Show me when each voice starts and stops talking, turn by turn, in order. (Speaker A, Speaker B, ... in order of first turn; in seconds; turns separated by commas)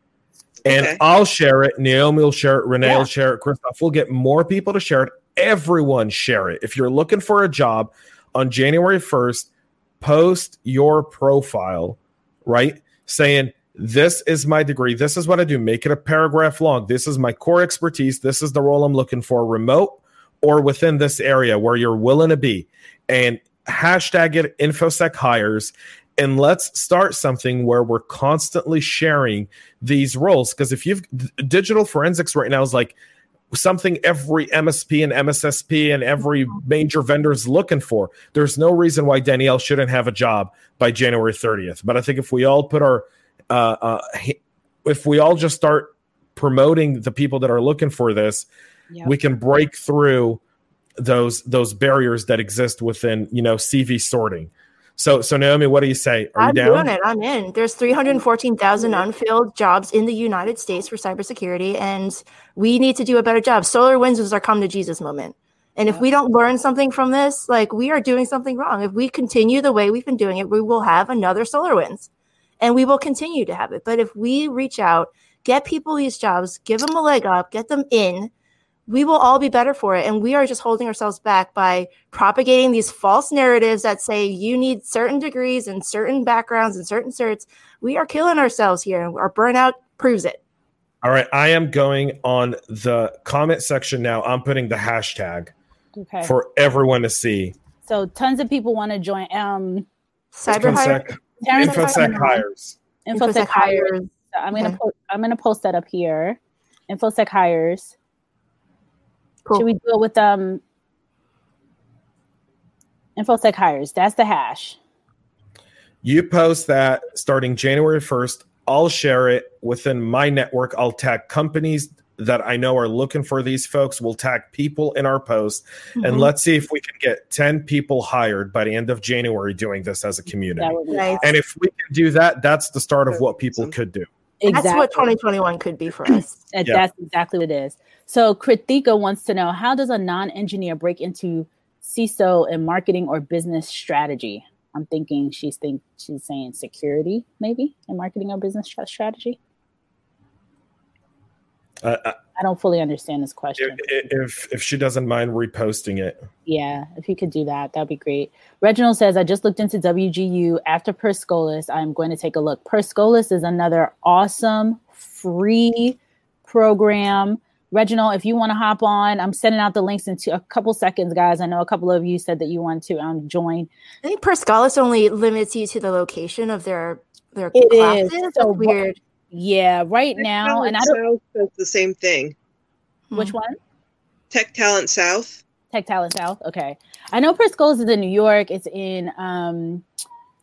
Speaker A: 0.6-9.5, Speaker B: 0.7-1.0, Speaker A: 10.0-32.9, Speaker A: 33.5-48.5, Speaker A: 49.0-50.4, Speaker A: 51.0-56.9, Speaker C: 56.4-72.1, Speaker C: 72.6-78.3, Speaker C: 78.9-90.4, Speaker A: 91.0-95.5, Speaker D: 95.9-96.3, Speaker A: 96.2-97.5, Speaker D: 97.8-99.8, Speaker C: 100.3-102.4, Speaker A: 100.5-102.8, Speaker D: 100.6-100.8, Speaker D: 101.4-102.4, Speaker D: 103.0-106.4, Speaker C: 103.1-104.8, Speaker D: 106.9-107.9, Speaker D: 109.5-110.6, Speaker D: 113.2-114.8, Speaker A: 116.0-134.1, Speaker C: 126.0-126.3, Speaker D: 130.6-131.3, Speaker C: 130.9-131.3, Speaker B: 133.1-133.7, Speaker D: 134.4-135.1, Speaker C: 134.4-136.4, Speaker D: 136.1-149.4, Speaker A: 151.8-152.2, Speaker D: 152.4-153.9, Speaker A: 153.6-156.2, Speaker D: 156.4-173.7, Speaker C: 174.0-179.0, Speaker D: 177.5-178.8, Speaker D: 179.3-181.0, Speaker B: 180.2-182.3, Speaker C: 183.1-183.3, Speaker D: 183.1-183.6, Speaker B: 184.3-185.4, Speaker D: 185.7-189.8